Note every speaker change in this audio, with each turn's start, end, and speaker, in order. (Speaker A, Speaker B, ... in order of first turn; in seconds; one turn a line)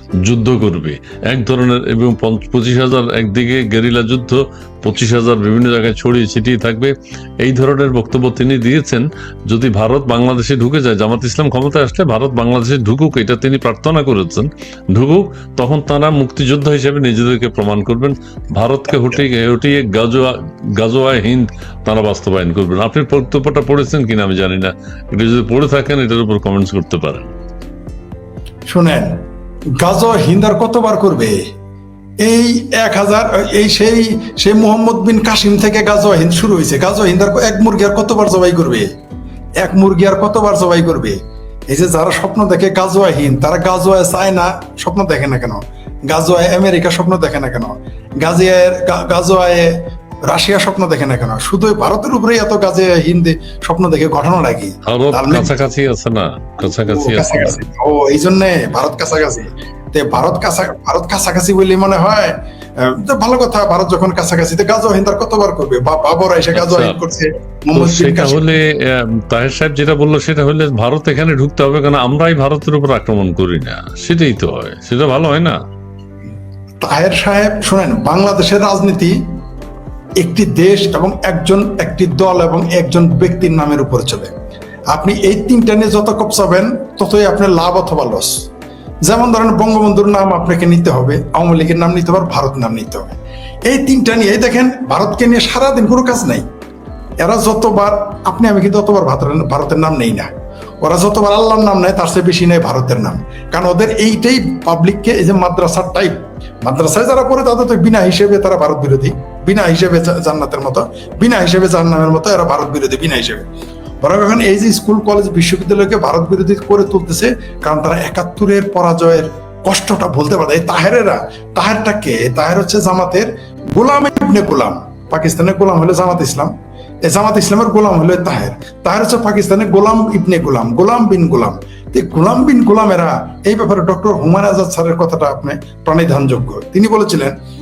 Speaker A: 0.2-27.3
Speaker B: 28.7-29.2
Speaker B: 29.8-31.4
Speaker B: 32.2-38.9
Speaker B: 39.6-41.2
Speaker B: 41.7-55.6
Speaker A: 54.9-57.6
Speaker B: 56.6-68.5
Speaker A: 66.5-67.0
Speaker A: 67.7-75.6
Speaker B: 76.8-79.2
Speaker B: 80.2-84.3
Speaker B: 84.9-88.5
Speaker B: 89.0-93.2
Speaker B: 93.7-96.4
Speaker B: 97.2-100.3
Speaker B: 100.8-113.5
Speaker B: 114.0-126.5
Speaker B: 127.0-137.3